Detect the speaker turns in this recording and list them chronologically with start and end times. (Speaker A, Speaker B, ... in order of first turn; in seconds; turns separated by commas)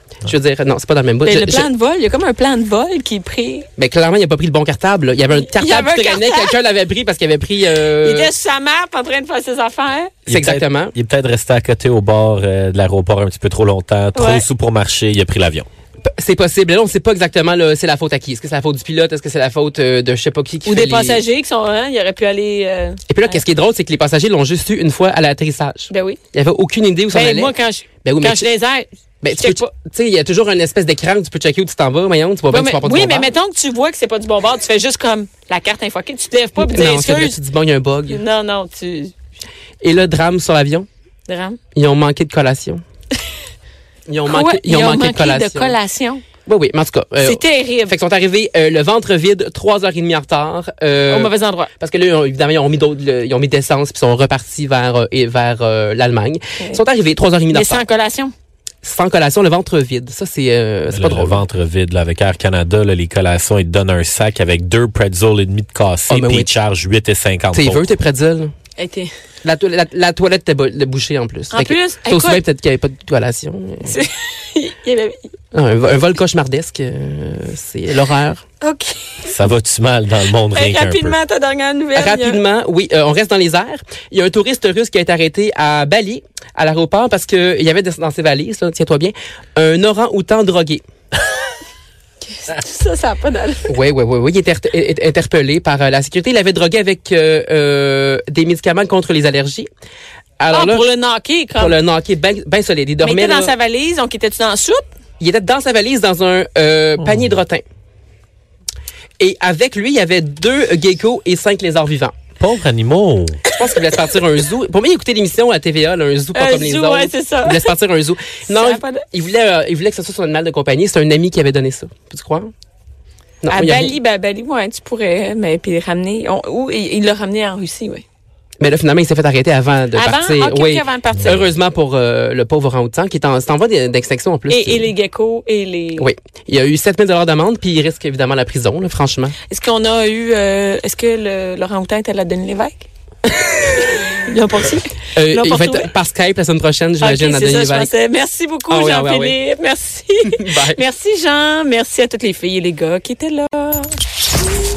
Speaker A: 0.2-1.7, Speaker B: 1.2-3.7, Speaker A: 3.8-8.3, Speaker B: 5.3-6.5, Speaker B: 8.0-10.1, Speaker C: 10.3-15.7, Speaker A: 10.3-10.9, Speaker B: 14.1-14.4, Speaker A: 16.2-21.2, Speaker B: 20.6-23.4, Speaker A: 23.1-28.5, Speaker B: 25.9-26.2, Speaker B: 27.1-29.7, Speaker A: 29.2-33.3, Speaker B: 32.5-37.4, Speaker A: 36.6-38.2, Speaker B: 38.1-39.1, Speaker A: 39.8-40.9, Speaker B: 41.3-41.6, Speaker A: 41.7-42.8, Speaker A: 44.1-45.8, Speaker B: 44.2-46.2, Speaker A: 46.5-57.8, Speaker B: 47.2-47.9, Speaker B: 51.1-51.7, Speaker B: 57.5-58.3, Speaker A: 58.8-61.4, Speaker C: 60.9-67.9, Speaker A: 66.1-66.5, Speaker A: 67.5-68.5, Speaker B: 68.8-69.1, Speaker A: 69.4-74.0, Speaker B: 71.5-72.4, Speaker B: 73.8-75.3, Speaker A: 75.5-78.4, Speaker B: 78.6-79.3, Speaker C: 79.2-81.2, Speaker B: 80.5-82.4, Speaker A: 81.9-90.8, Speaker B: 92.2-93.7, Speaker A: 93.7-99.7, Speaker A: 100.4-100.9, Speaker B: 100.5-101.8, Speaker A: 101.5-103.5, Speaker B: 103.0-104.9, Speaker A: 105.2-107.6, Speaker A: 109.2-112.2, Speaker C: 112.4-113.4, Speaker A: 113.5-122.5, Speaker B: 116.3-117.7, Speaker B: 118.5-119.0, Speaker A: 123.4-123.9, Speaker B: 123.5-128.0, Speaker A: 128.6-134.9, Speaker B: 129.9-131.4, Speaker B: 134.5-136.1, Speaker A: 136.0-139.3, Speaker B: 139.5-142.9, Speaker B: 143.6-145.9, Speaker A: 145.2-147.9, Speaker B: 147.0-153.9, Speaker A: 148.7-149.3, Speaker A: 150.2-150.8